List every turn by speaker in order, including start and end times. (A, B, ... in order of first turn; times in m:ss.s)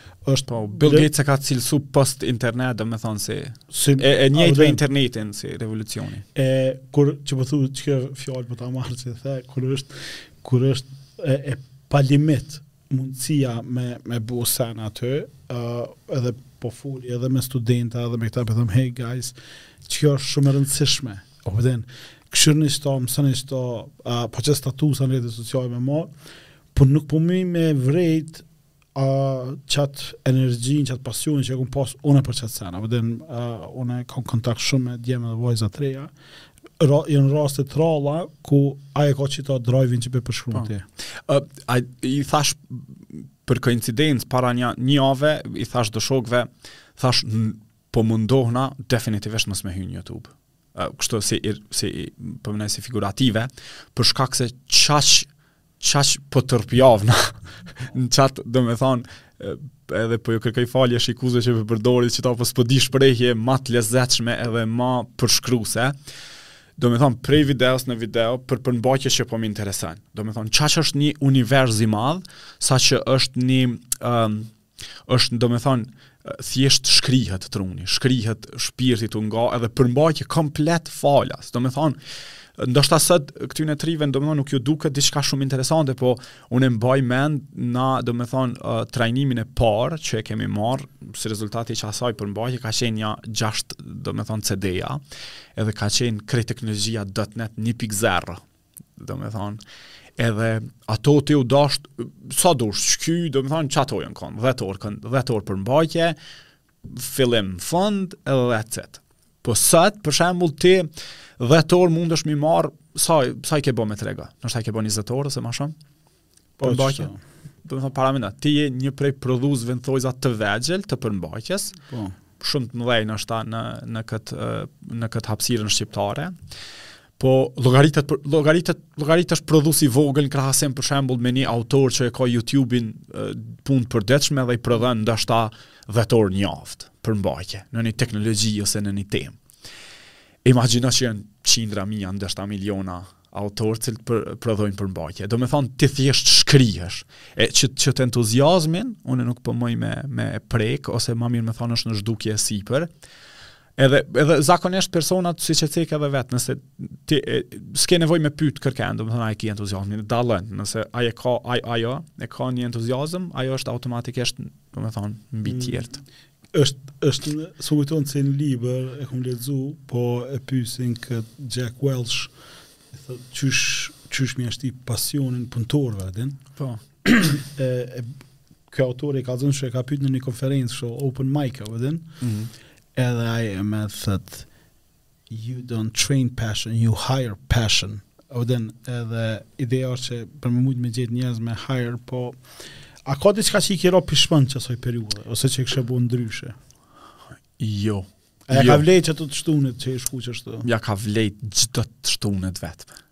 0:00.2-0:01.1 A
0:00.5-0:06.2 B
0:03.7-0:04.8 A
0:06.3-0:26.1 A
0:26.7-0:36.1 A
0:36.8-0:40.8 A
0:40.5-0:55.3 B
0:55.8-1:06.0 B
1:06.8-1:14.5 B
1:15.0-1:22.0 B
1:22.6-1:35.0 B
1:35.5-1:38.4 B
1:39.0-1:39.6 B
1:40.2-1:46.2 B
1:46.8-1:55.7 B
1:56.6-1:57.2 A
1:56.6-1:57.1 B
1:57.6-2:01.8 B
2:01.9-2:02.2 A
2:02.4-2:06.3 B
2:07.2-2:19.4 B
2:20.4-2:32.9 B
2:33.8-2:46.0 B
2:45.4-2:45.9 A
2:46.5-2:52.3 A
2:52.9-2:56.4 A
2:56.6-2:56.8 B
2:57.0-2:58.1 A
2:58.7-3:02.1 A
3:02.2-3:02.5 B
3:03.0-3:04.5 A
3:05.3-3:12.4 A
3:13.0-3:16.6 A
3:17.6-3:18.8 B
3:18.5-3:20.6 A
3:20.6-3:22.9 B